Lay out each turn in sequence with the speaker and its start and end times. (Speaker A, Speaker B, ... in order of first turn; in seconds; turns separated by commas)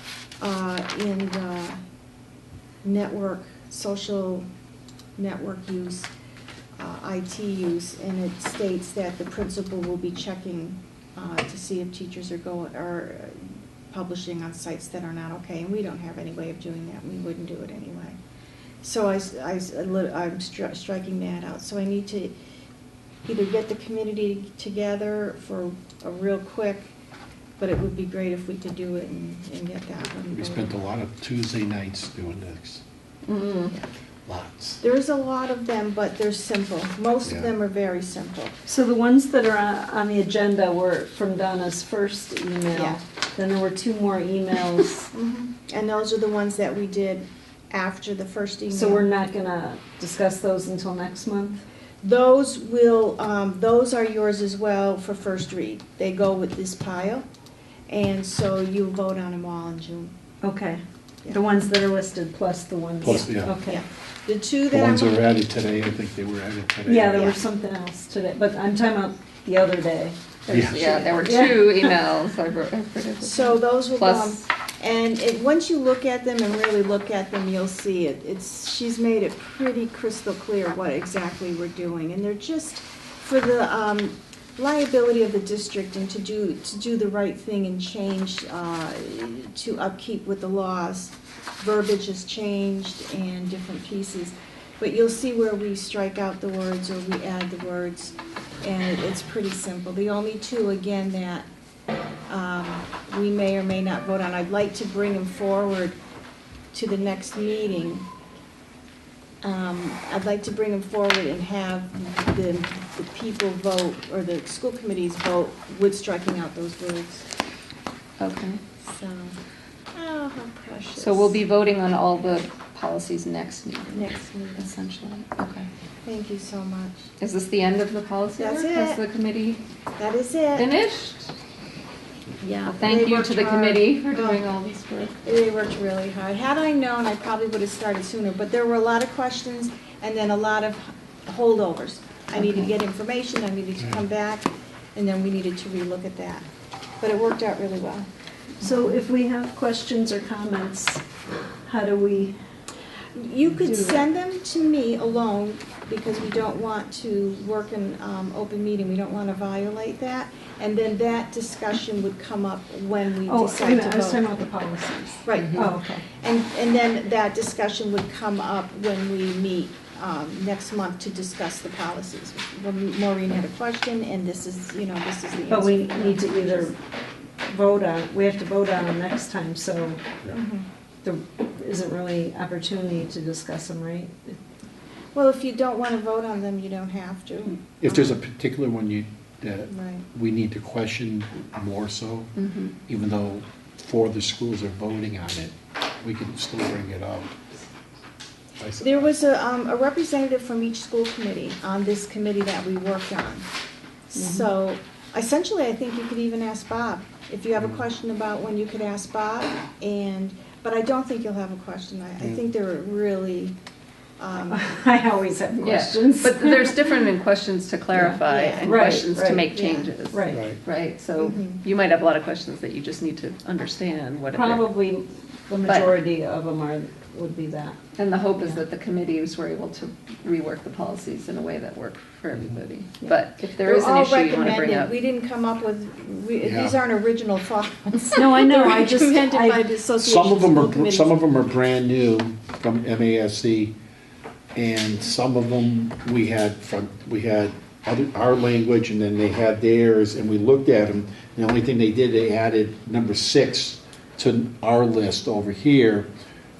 Speaker A: 0.4-1.8, Speaker A: 2.8-4.5, Speaker A: 5.2-6.1, Speaker A: 6.8-18.2, Speaker A: 18.8-22.3, Speaker A: 23.2-26.9, Speaker A: 27.6-30.7, Speaker B: 30.3-32.8, Speaker C: 33.2-33.7, Speaker B: 34.3-34.8, Speaker A: 34.8-38.5, Speaker B: 37.2-37.5, Speaker D: 38.6-45.1, Speaker A: 42.7-43.0, Speaker A: 45.1-49.1, Speaker D: 48.7-51.6, Speaker A: 52.0-57.2, Speaker A: 57.9-60.1, Speaker D: 60.4-63.8, Speaker B: 63.0-63.5, Speaker A: 63.0-65.2, Speaker B: 64.7-67.4, Speaker D: 66.8-71.9, Speaker A: 67.1-67.4, Speaker B: 70.5-71.2, Speaker C: 70.6-74.4, Speaker A: 73.2-101.5, Speaker A: 102.3-106.0, Speaker A: 106.7-108.1, Speaker A: 109.4-117.3, Speaker C: 118.2-118.6, Speaker A: 118.8-119.3, Speaker A: 119.9-121.4, Speaker C: 121.0-125.7, Speaker A: 123.9-124.7, Speaker A: 126.0-127.1, Speaker C: 127.2-129.6, Speaker A: 128.4-129.0, Speaker A: 130.0-130.7, Speaker C: 130.5-131.3, Speaker A: 132.4-134.4, Speaker C: 132.7-135.2, Speaker A: 135.2-146.4, Speaker C: 142.3-142.7, Speaker A: 147.0-148.1, Speaker D: 148.6-151.0, Speaker C: 148.6-148.9, Speaker D: 151.7-152.4, Speaker A: 153.1-164.2, Speaker D: 153.7-154.0, Speaker D: 163.3-166.0, Speaker A: 165.2-176.7, Speaker C: 165.3-165.6, Speaker D: 175.5-176.8, Speaker D: 177.4-180.0, Speaker A: 180.3-180.7, Speaker D: 181.0-184.4, Speaker A: 185.1-188.1, Speaker B: 187.8-192.3, Speaker A: 189.7-190.1, Speaker C: 192.4-192.7, Speaker B: 192.9-197.4, Speaker B: 198.6-199.1, Speaker A: 198.8-203.4, Speaker A: 204.1-213.6, Speaker D: 204.2-204.4, Speaker A: 214.2-214.6, Speaker D: 214.5-216.9, Speaker C: 215.6-224.7, Speaker D: 217.9-219.5, Speaker A: 218.2-219.9, Speaker D: 220.1-220.4, Speaker B: 220.3-220.6, Speaker A: 221.2-221.6, Speaker D: 224.3-227.8, Speaker C: 225.6-225.9, Speaker C: 227.9-234.9, Speaker A: 233.6-241.2, Speaker B: 236.4-236.8, Speaker D: 238.1-239.7, Speaker B: 240.0-243.7, Speaker B: 244.5-256.1